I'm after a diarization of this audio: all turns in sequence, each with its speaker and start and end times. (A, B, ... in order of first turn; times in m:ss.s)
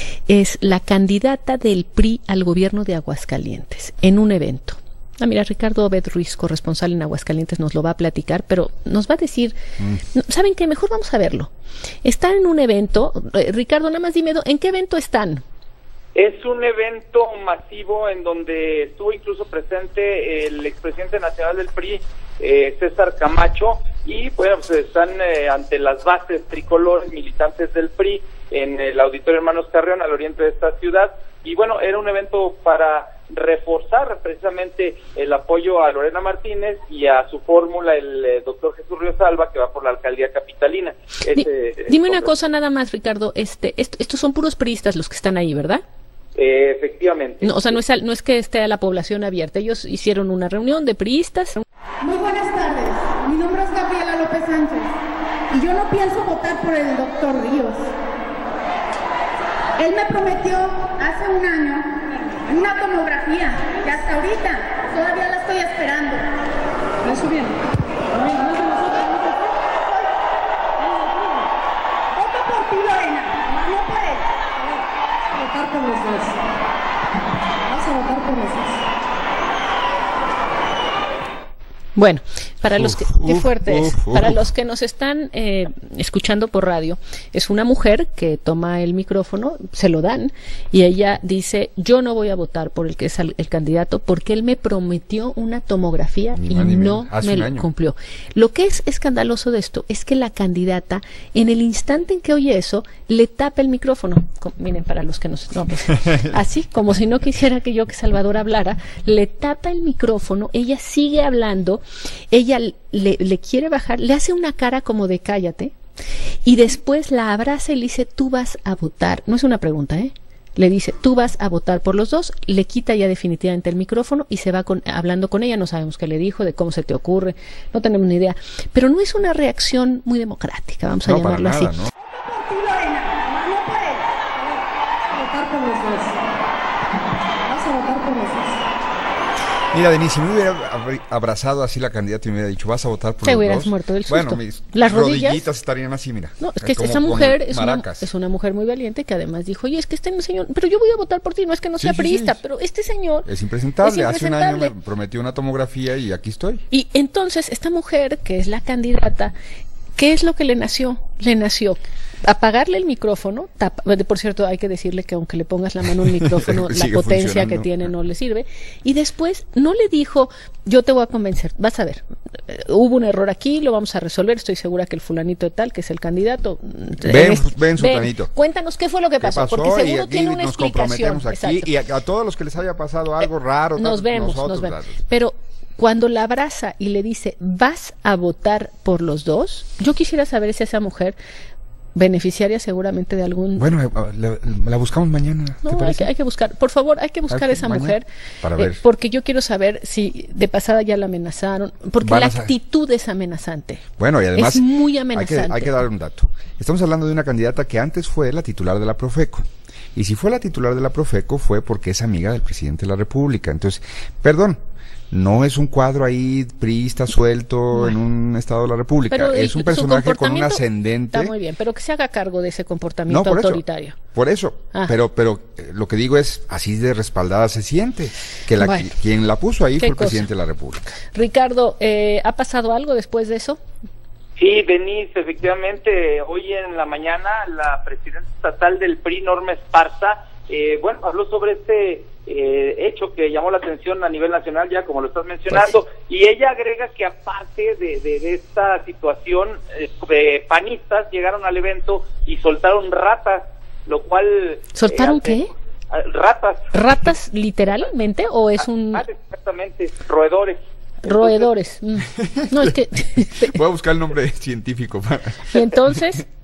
0:00.3-0:09.6 A
0:10.1-0:11.5 A
0:12.0-0:15.4 A
0:16.1-0:42.3 B
0:41.3-0:45.8 A
0:46.4-0:47.7 B
0:47.4-0:51.6 A
0:52.0-0:55.0 C
0:55.5-0:57.9 C
0:59.8-1:06.3 C
1:07.0-1:10.1 C
1:10.8-1:11.5 C
1:12.1-1:14.8 C
1:15.3-1:16.4 C
1:17.6-1:18.8 C
1:22.0-1:55.7 A
1:22.7-1:24.4 D
1:36.4-1:37.7 D
1:56.4-2:11.8 A
2:11.0-2:11.9 D
2:12.0-2:16.2 C
2:17.4-2:18.6 C
2:19.7-2:28.1 D
2:23.2-2:25.4 A
2:26.4-2:33.2 A
2:31.8-2:32.4 D
2:33.2-2:36.6 D
2:33.8-2:34.7 A
2:36.7-2:39.3 A
2:40.0-3:01.7 A
2:46.1-2:47.7 D
2:57.0-2:58.3 D
2:59.2-3:05.0 D
3:03.8-3:11.2 A
3:11.9-3:13.7 A
3:13.6-3:16.1 D
3:15.6-3:23.8 A
3:17.3-3:18.8 D
3:22.0-3:22.5 D
3:24.0-3:34.6 D
3:24.3-3:25.7 A
3:35.1-3:41.3 D
3:39.1-3:44.0 A
3:43.1-3:43.6 D
3:44.1-3:50.9 D
3:48.6-3:48.9 A
3:49.8-3:50.3 A
3:51.1-3:53.6 A
3:54.4-4:16.7 B
4:14.7-4:15.5 A
4:16.7-4:19.0 A
4:18.6-4:21.5 B
4:21.0-4:23.6 A
4:22.2-4:22.7 D
4:23.4-4:25.8 D
4:25.5-4:26.2 A